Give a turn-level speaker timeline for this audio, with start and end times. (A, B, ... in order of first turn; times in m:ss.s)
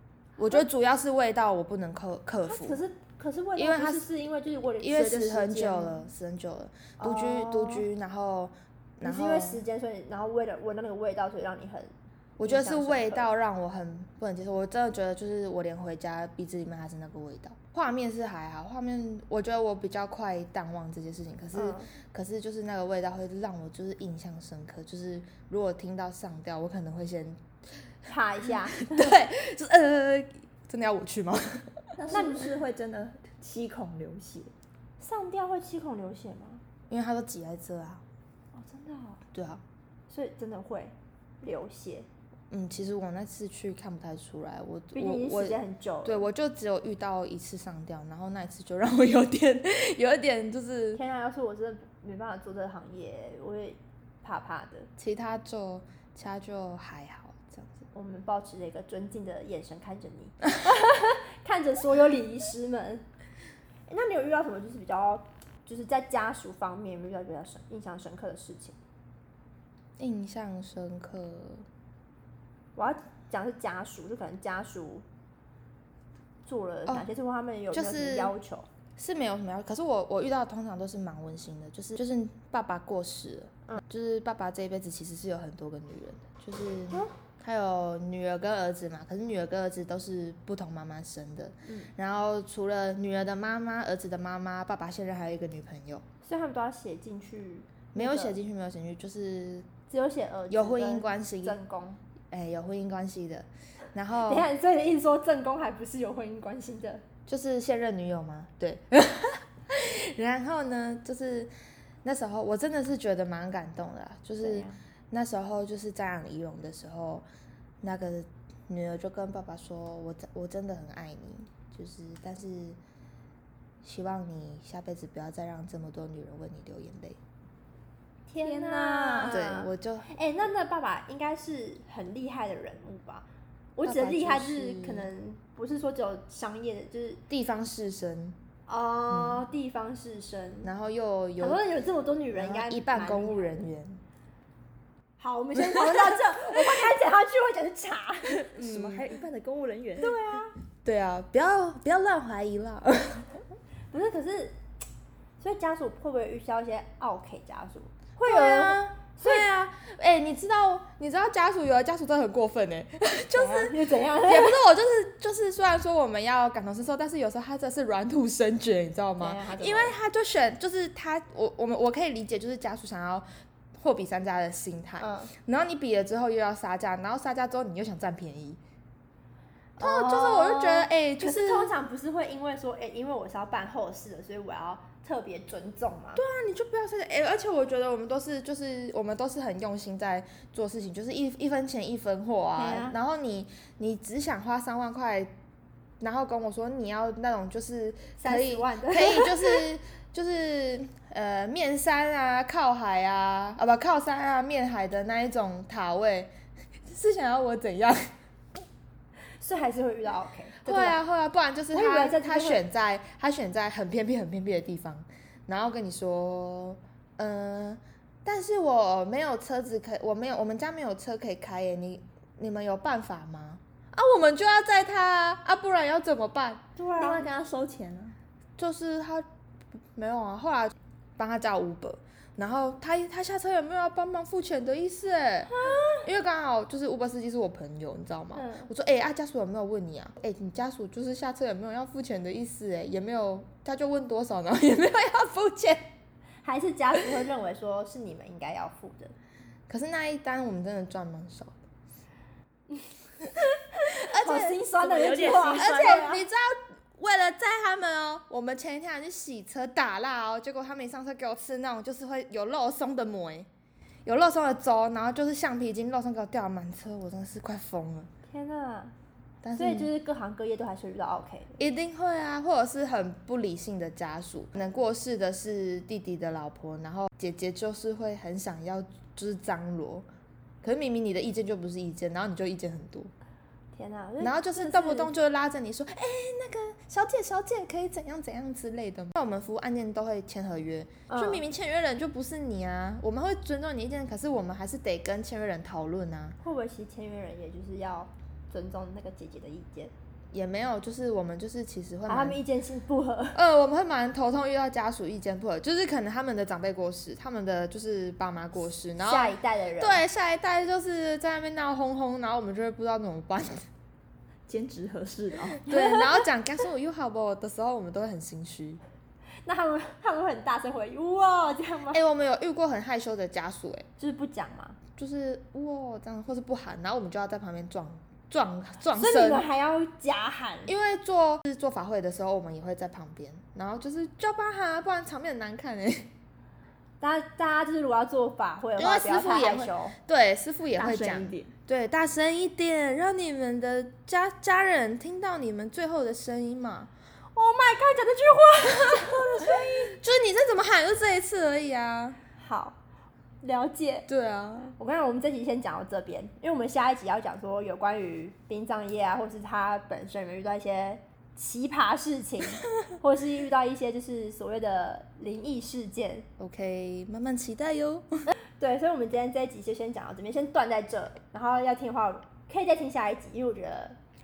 0:00.4-0:02.8 A
0:02.4-0:05.9 B
0:03.6-0:04.1 A
0:04.8-0:09.6 A
0:07.0-0:07.8 B
0:09.0-0:11.9 B
0:12.4-0:27.4 A
0:12.4-0:13.3 B
0:21.5-0:21.9 B
0:28.1-0:29.1 B
0:28.8-0:31.9 A
0:32.0-0:34.5 C
0:32.1-0:32.5 B
0:35.0-0:36.6 B
0:36.9-0:38.0 A
0:38.5-0:39.2 B
0:39.3-0:39.6 A
0:40.1-0:42.1 B
0:42.5-0:51.0 A
0:44.9-0:46.3 B
0:50.9-0:54.9 B
0:55.0-0:57.9 A
0:57.9-1:03.0 B
1:03.9-1:08.8 B
1:10.0-1:11.6 A
1:12.8-1:15.0 B
1:16.4-1:18.6 B
1:17.7-1:18.3 A
1:19.0-1:36.0 A
1:31.6-1:31.9 B
1:36.2-1:38.4 B
1:37.9-1:39.7 A
1:39.9-1:42.0 B
1:40.5-1:41.6 A
1:42.3-1:44.5 A
1:44.3-1:47.0 B
1:47.3-1:51.5 A
1:52.0-1:57.2 A
1:54.4-1:54.8 B
1:57.8-2:02.8 A
2:03.8-2:07.2 A
2:08.3-2:17.2 B
2:08.4-2:09.4 C
2:09.3-2:10.1 A
2:13.8-2:15.1 A
2:17.3-2:18.4 A
2:18.7-2:20.7 B
2:19.1-2:19.4 A
2:20.6-2:21.6 A
2:21.4-2:23.6 B
2:22.3-2:24.0 A
2:25.2-2:28.4 B
2:28.5-2:29.1 A
2:28.5-2:30.2 C
2:30.0-2:30.5 B
2:30.8-2:33.3 A
2:33.9-2:34.6 B
2:35.4-2:39.5 B
2:38.2-2:53.3 A
2:43.3-2:44.6 B
2:49.2-2:50.0 B
2:53.8-2:58.6 A
2:55.0-2:55.3 B
2:59.8-3:06.2 B
2:59.8-3:01.7 A
3:06.2-3:15.3 A
3:12.6-3:13.0 B
3:16.0-3:28.0 A
3:18.2-3:19.6 B
3:29.4-3:31.0 B
3:30.6-3:46.7 A
3:31.7-3:32.6 B
3:46.8-3:47.3 B
3:47.0-3:48.2 C
3:48.6-3:49.2 A
3:49.9-4:05.9 A
3:55.5-3:56.0 B
3:58.3-3:58.7 B
4:06.4-4:09.1 B
4:09.7-4:11.6 A
4:12.7-4:16.2 B
4:13.2-4:23.5 A
4:14.8-4:16.1 C
4:24.0-4:28.1 A
4:28.3-4:28.9 B
4:29.4-4:29.9 A
4:29.6-4:31.6 B
4:31.6-4:40.1 A
4:40.6-4:43.1 A
4:43.7-4:45.1 B
4:44.2-4:56.4 A
4:51.1-4:51.4 B
4:56.4-4:59.9 B
5:00.3-5:02.4 A
5:02.1-5:03.4 B
5:03.3-5:13.6 A
5:08.9-5:10.0 B
5:14.5-5:16.1 C
5:15.6-5:18.8 A
5:19.4-5:22.0 B
5:21.9-5:23.9 A
5:24.0-5:24.8 B
5:25.0-5:29.4 A
5:29.0-5:30.7 B
5:30.7-5:36.1 A
5:37.0-5:40.0 B
5:38.8-5:46.9 A
5:40.8-5:41.5 C
5:47.3-5:50.0 B
5:49.9-5:52.2 A
5:52.4-5:52.8 B
5:53.4-5:54.1 B
5:54.1-5:54.7 A
5:54.8-6:06.3 B
6:06.4-6:08.3 A
6:08.6-6:14.0 B